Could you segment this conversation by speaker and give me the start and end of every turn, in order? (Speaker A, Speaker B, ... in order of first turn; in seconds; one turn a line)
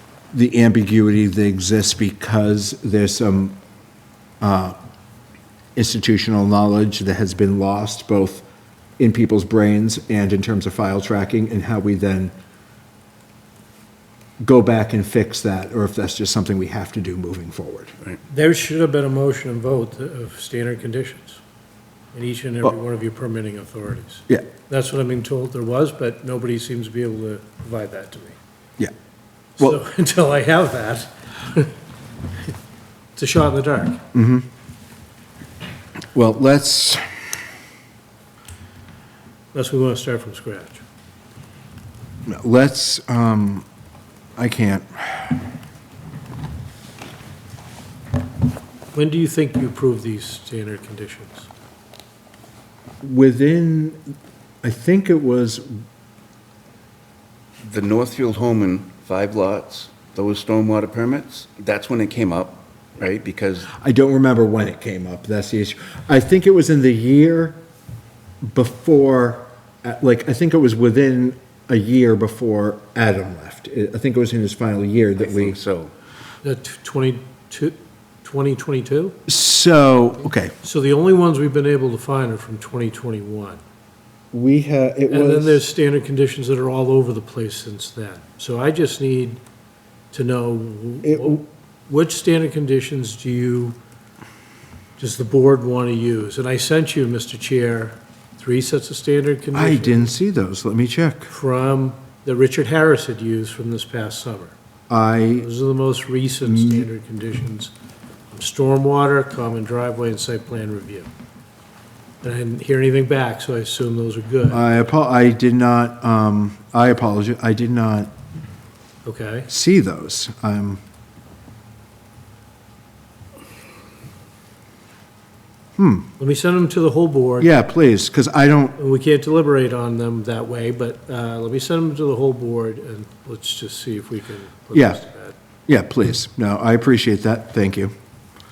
Speaker A: 0.3-3.6
Speaker A: 4.4-4.7
Speaker A: 5.7-8.4
Speaker A: 9.0-12.3
Speaker A: 14.4-17.9
Speaker B: 18.3-21.4
Speaker B: 22.1-28.4
Speaker B: 29.6-31.7
Speaker B: 33.1-34.0
Speaker A: 34.1-34.5
Speaker A: 36.1-37.0
Speaker B: 39.5-40.8
Speaker A: 42.2-43.6
Speaker A: 44.4-45.4
Speaker B: 48.9-51.5
Speaker A: 53.0-54.0
Speaker A: 54.6-55.7
Speaker C: 57.6-63.7
Speaker A: 63.7-67.6
Speaker A: 68.4-75.6
Speaker C: 75.2-75.9
Speaker B: 76.4-79.1
Speaker A: 79.3-80.5
Speaker B: 80.6-83.6
Speaker A: 84.3-85.6
Speaker B: 85.1-89.4
Speaker B: 90.1-93.8
Speaker A: 91.0-91.4
Speaker B: 95.0-100.1
Speaker A: 99.5-101.3
Speaker B: 101.3-104.5
Speaker A: 104.9-105.5
Speaker B: 105.4-107.7
Speaker A: 106.4-106.9
Speaker B: 108.3-111.1
Speaker B: 112.2-114.9
Speaker A: 114.5-118.1
Speaker B: 119.0-119.5
Speaker A: 119.5-120.8
Speaker A: 125.8-126.1
Speaker B: 126.2-127.5
Speaker A: 127.4-128.8
Speaker B: 128.8-135.3
Speaker A: 134.7-135.0
Speaker A: 135.7-137.9